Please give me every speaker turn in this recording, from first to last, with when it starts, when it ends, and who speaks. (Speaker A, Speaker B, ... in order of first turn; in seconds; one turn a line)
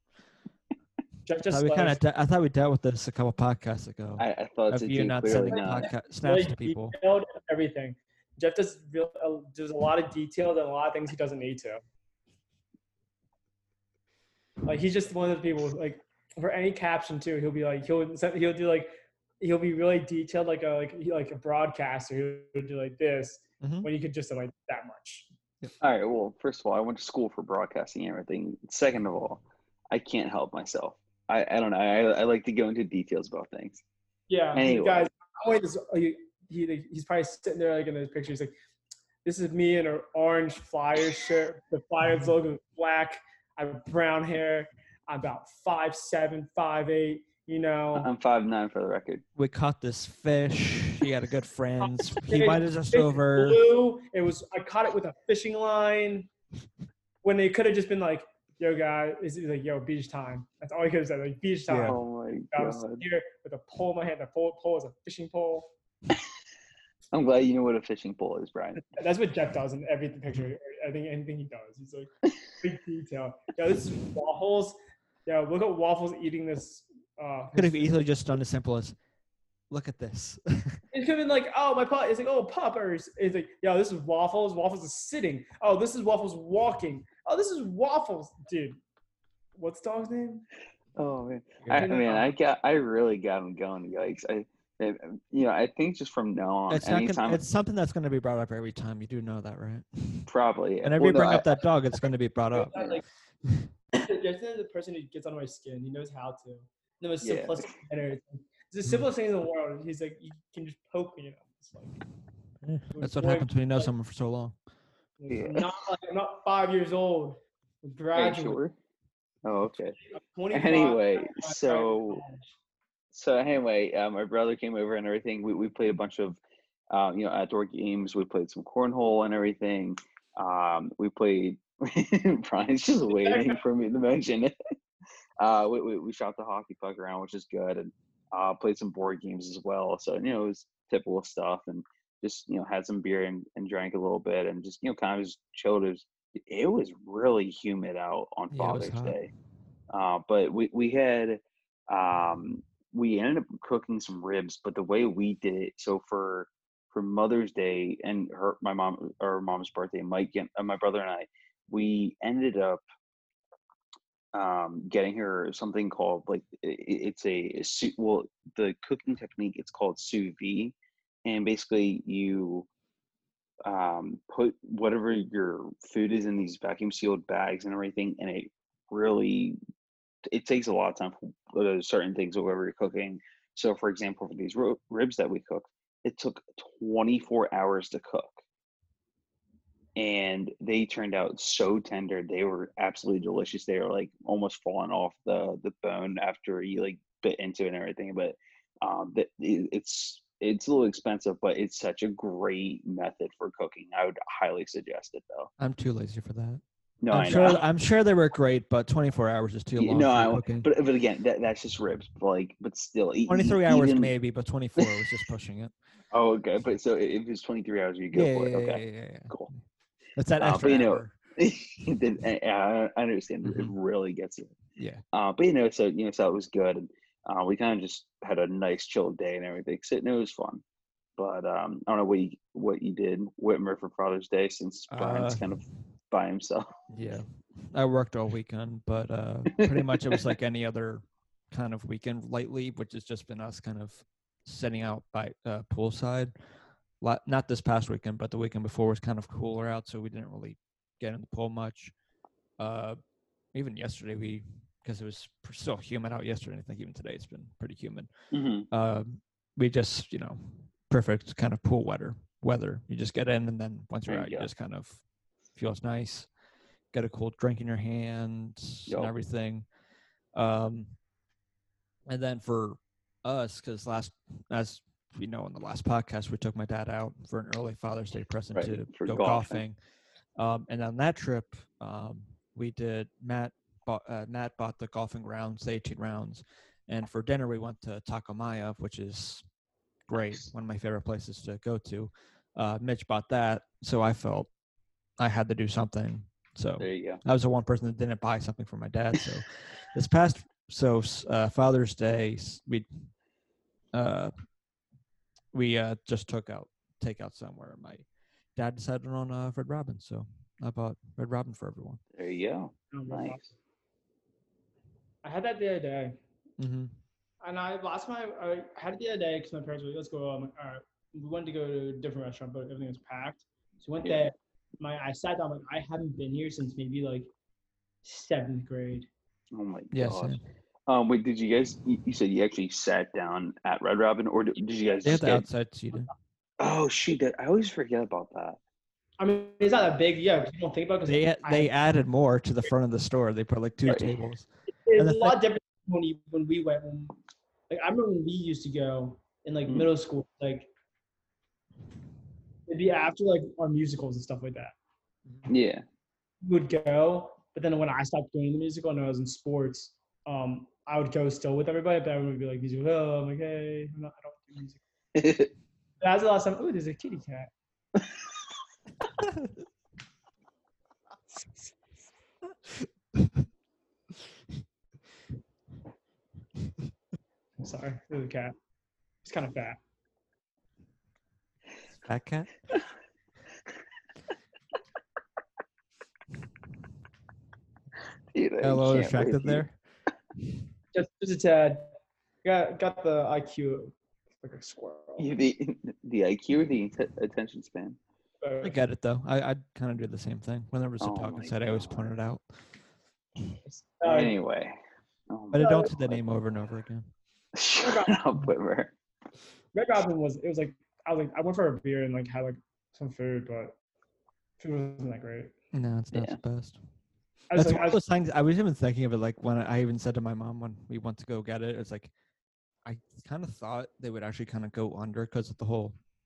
Speaker A: 1.2-2.0
Speaker B: 1.5-7.0
Speaker C: 4.2-5.9
Speaker A: 5.5-11.8
Speaker A: 14.6-25.3
Speaker B: 23.6-23.9
Speaker C: 25.8-33.8
Speaker A: 34.3-38.5
Speaker C: 34.5-35.1
Speaker A: 39.2-48.1
Speaker C: 47.9-49.2
Speaker B: 49.4-53.6
Speaker A: 52.1-56.3
Speaker A: 57.2-65.7
Speaker B: 61.7-62.0
Speaker C: 61.8-63.0
Speaker C: 67.1-68.8
Speaker A: 68.9-72.1
Speaker A: 72.6-78.1
Speaker B: 77.5-79.0
Speaker B: 79.7-80.8
Speaker A: 80.9-88.8
Speaker A: 89.5-90.5
Speaker C: 91.0-97.4
Speaker B: 91.6-91.9
Speaker A: 91.7-92.3
Speaker B: 96.7-100.3
Speaker C: 100.3-101.6
Speaker B: 100.8-102.9
Speaker C: 102.6-102.9
Speaker A: 102.6-103.0
Speaker A: 103.9-112.0
Speaker C: 107.2-107.7
Speaker B: 112.6-114.5
Speaker A: 112.9-113.9
Speaker A: 115.2-118.6
Speaker C: 115.3-115.7
Speaker C: 118.1-118.8
Speaker C: 119.4-120.0
Speaker A: 120.1-122.5
Speaker C: 120.5-122.2
Speaker C: 123.1-126.4
Speaker C: 126.9-134.5
Speaker A: 133.1-133.6
Speaker C: 135.4-149.3
Speaker B: 148.5-149.2
Speaker C: 149.9-162.8
Speaker C: 164.3-172.7
Speaker C: 173.6-179.6
Speaker C: 180.3-188.4
Speaker C: 189.9-205.5
Speaker B: 205.6-210.7
Speaker C: 207.0-207.6
Speaker C: 209.8-214.1
Speaker B: 213.3-215.7
Speaker C: 216.1-219.5
Speaker B: 218.1-219.4
Speaker B: 220.2-221.2
Speaker C: 220.4-224.5
Speaker B: 223.4-223.8
Speaker B: 224.8-225.0
Speaker C: 225.1-230.6
Speaker C: 231.2-236.7
Speaker B: 234.9-235.4
Speaker B: 236.9-246.3
Speaker C: 239.6-240.2
Speaker B: 247.0-251.9
Speaker B: 252.6-253.0
Speaker B: 253.5-258.1
Speaker C: 258.3-258.7
Speaker B: 258.7-265.0
Speaker C: 264.1-264.5
Speaker B: 265.6-266.3
Speaker B: 266.9-269.6
Speaker B: 270.4-270.9
Speaker B: 272.1-279.8
Speaker C: 278.5-279.6
Speaker B: 280.4-289.4
Speaker B: 290.1-294.5
Speaker B: 295.2-302.9
Speaker C: 296.8-297.2
Speaker B: 303.9-304.3
Speaker B: 305.5-308.0
Speaker B: 308.6-312.0
Speaker C: 312.1-313.4
Speaker A: 312.9-313.5
Speaker A: 315.2-316.2
Speaker B: 316.6-316.9
Speaker A: 317.4-327.3
Speaker C: 324.0-324.3
Speaker A: 328.0-329.1
Speaker C: 329.5-330.4
Speaker B: 329.9-330.4
Speaker C: 330.9-335.4
Speaker B: 335.0-336.1
Speaker C: 336.6-338.6
Speaker A: 339.2-341.7
Speaker B: 341.1-345.4
Speaker C: 343.9-344.2
Speaker A: 344.9-347.2
Speaker A: 347.7-350.7
Speaker A: 352.7-354.8
Speaker C: 355.5-355.8
Speaker A: 356.4-364.8
Speaker C: 365.1-365.5
Speaker A: 366.0-367.5
Speaker A: 377.6-378.5
Speaker A: 379.2-379.8
Speaker B: 382.0-382.5
Speaker C: 388.3-389.6
Speaker B: 388.6-389.8
Speaker A: 390.9-391.9
Speaker A: 392.4-395.3
Speaker C: 395.2-398.0
Speaker A: 398.4-398.8
Speaker B: 398.6-402.4
Speaker C: 401.0-402.1
Speaker A: 403.6-404.4
Speaker C: 404.0-404.8
Speaker C: 405.3-406.2
Speaker B: 405.5-407.1
Speaker A: 405.6-405.9
Speaker C: 407.5-408.9
Speaker A: 407.8-408.2
Speaker A: 409.7-413.8
Speaker A: 414.6-415.5
Speaker B: 415.7-416.8
Speaker C: 416.1-416.4
Speaker A: 417.5-418.0
Speaker B: 417.5-422.1
Speaker B: 422.9-425.9